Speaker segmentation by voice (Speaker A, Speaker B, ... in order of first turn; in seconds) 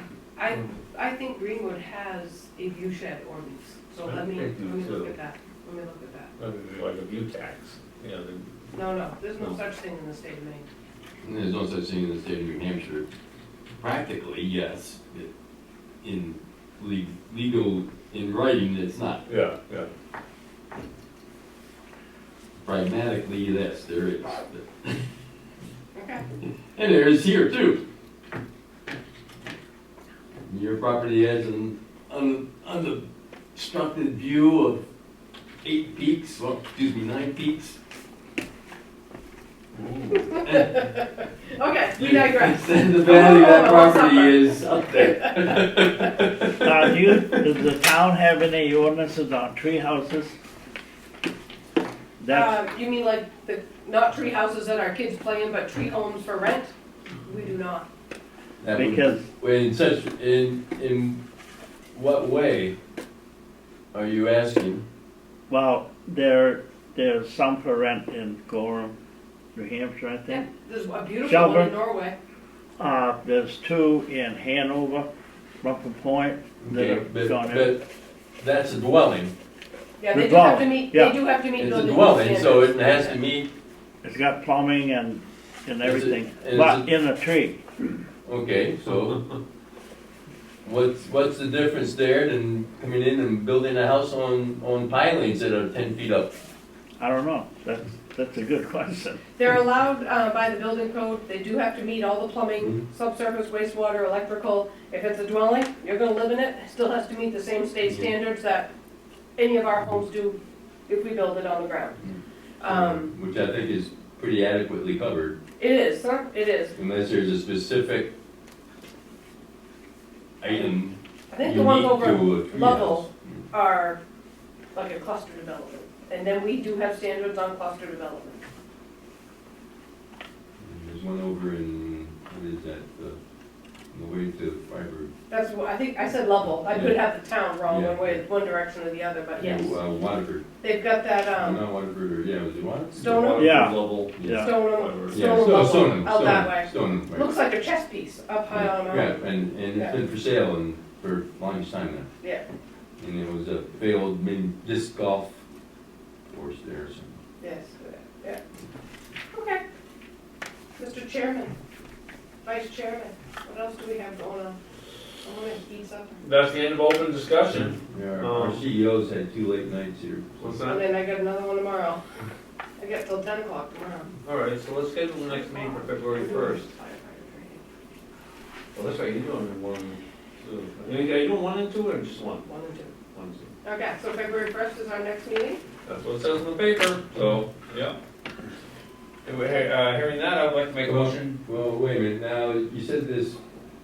Speaker A: 0.4-6.3, 8.8-10.7, 25.9-26.2, 40.1-44.6, 52.3-56.7, 57.3-57.9, 70.3-72.2, 80.0-83.2, 99.4-108.7, 109.4-112.0, 112.6-113.1, 115.6-116.8, 121.3-124.0, 124.7-128.4, 135.3-139.8, 140.6-141.6, 144.3-150.0, 157.4-158.4, 159.3-159.6, 160.8-161.6, 162.4-164.6, 165.2-166.2, 170.7-172.0, 172.8-174.1, 175.2-177.6, 182.4-182.9, 183.6-185.6, 189.4-189.7
Speaker B: 4.1-5.2, 6.4-8.5, 19.3-19.9, 39.8-40.2, 142.9-145.3, 166.2-168.6, 170.4-170.8, 174.2-176.6, 178.7-183.5, 185.9-188.0, 189.2-191.4
Speaker C: 11.2-13.1, 13.8-15.3, 16.0-19.2, 22.6-25.0, 26.7-27.8, 30.5-34.8, 35.6-37.8, 40.5-40.7, 42.0-47.4, 58.6-61.2, 61.9-62.8, 63.9-64.8, 76.6-77.9, 78.4-79.3, 81.6-83.5, 85.8-86.9, 88.2-89.2, 90.6-96.3, 107.9-108.1, 112.0-115.4, 116.8-118.1, 120.4-123.4, 130.6-133.2, 133.9-135.1, 136.4-137.0, 137.7-138.2, 139.4-140.4, 141.4-147.3, 148.5-152.1, 153.0-155.4, 156.3-157.2, 167.9-170.5, 190.8-193.4
Speaker D: 46.6-50.4, 52.2-52.6, 58.8-59.2, 65.5-69.0, 69.5-70.5, 71.2-71.7, 72.8-75.1, 75.6-77.8, 80.1-81.2, 84.0-87.6, 97.0-99.2, 143.3-144.5